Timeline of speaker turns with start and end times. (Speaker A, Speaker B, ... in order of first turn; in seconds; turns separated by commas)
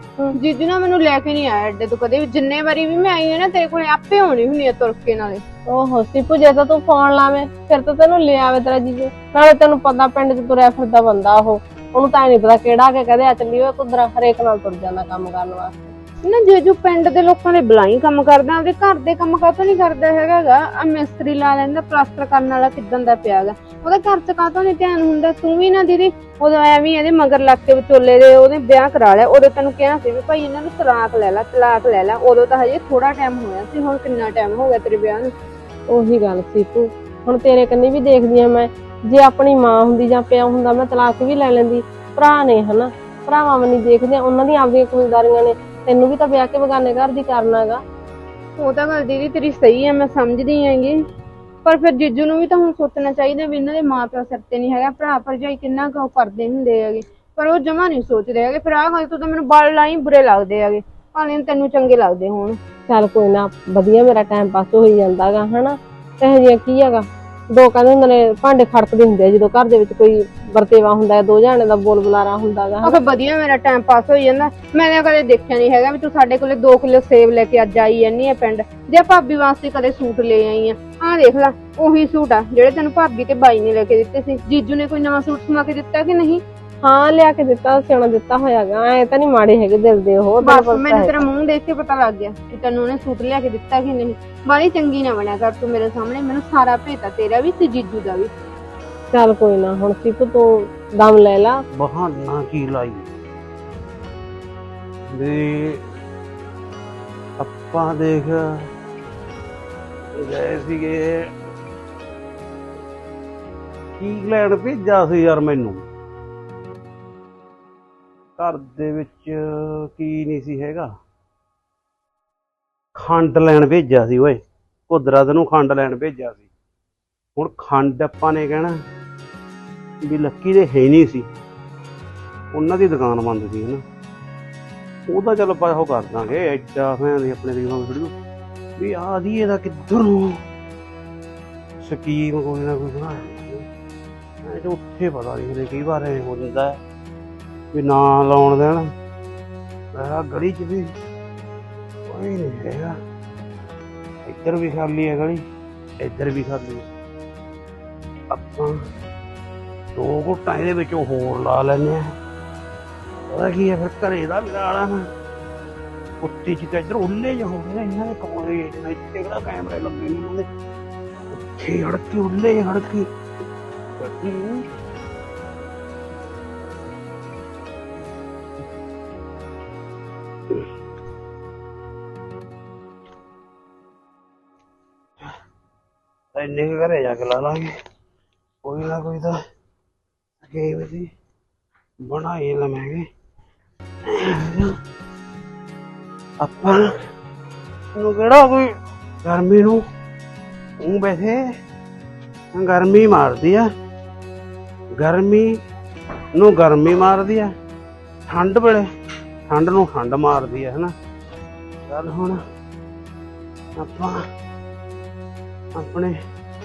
Speaker A: 0.3-5.4, Speaker B: 5.7-15.9, Speaker A: 16.2-35.3, Speaker B: 35.9-47.8, Speaker A: 48.6-51.0, Speaker A: 51.6-62.6, Speaker B: 62.9-73.0, Speaker A: 72.8-86.4, Speaker B: 86.8-91.2, Speaker A: 90.4-98.3, Speaker B: 99.1-101.6, Speaker C: 101.7-103.1, Speaker C: 105.1-105.8, Speaker C: 107.4-108.7, Speaker C: 110.2-111.3, Speaker C: 114.0-115.8, Speaker C: 118.4-120.9, Speaker C: 123.0-126.5, Speaker C: 127.4-128.8, Speaker C: 130.0-131.3, Speaker C: 132.5-133.8, Speaker C: 135.1-138.1, Speaker C: 138.8-140.4, Speaker C: 141.8-143.7, Speaker C: 144.4-146.8, Speaker C: 147.7-148.9, Speaker C: 149.9-150.9, Speaker C: 152.1-153.0, Speaker C: 154.3-155.4, Speaker C: 156.0-156.9, Speaker C: 158.3-158.8, Speaker C: 159.9-162.2, Speaker C: 163.3-165.1, Speaker C: 166.2-170.5, Speaker C: 171.3-173.1, Speaker C: 174.0-174.7, Speaker C: 186.3-187.7, Speaker C: 188.6-189.4, Speaker C: 190.4-191.1, Speaker C: 192.1-193.1, Speaker C: 194.1-194.7, Speaker C: 196.4-196.9, Speaker C: 198.0-199.8, Speaker C: 200.8-201.4, Speaker C: 202.5-203.7, Speaker C: 205.0-205.5, Speaker C: 206.3-207.5, Speaker C: 208.3-208.9, Speaker C: 209.5-210.9, Speaker C: 211.9-212.4, Speaker C: 213.8-214.2, Speaker C: 215.8-216.2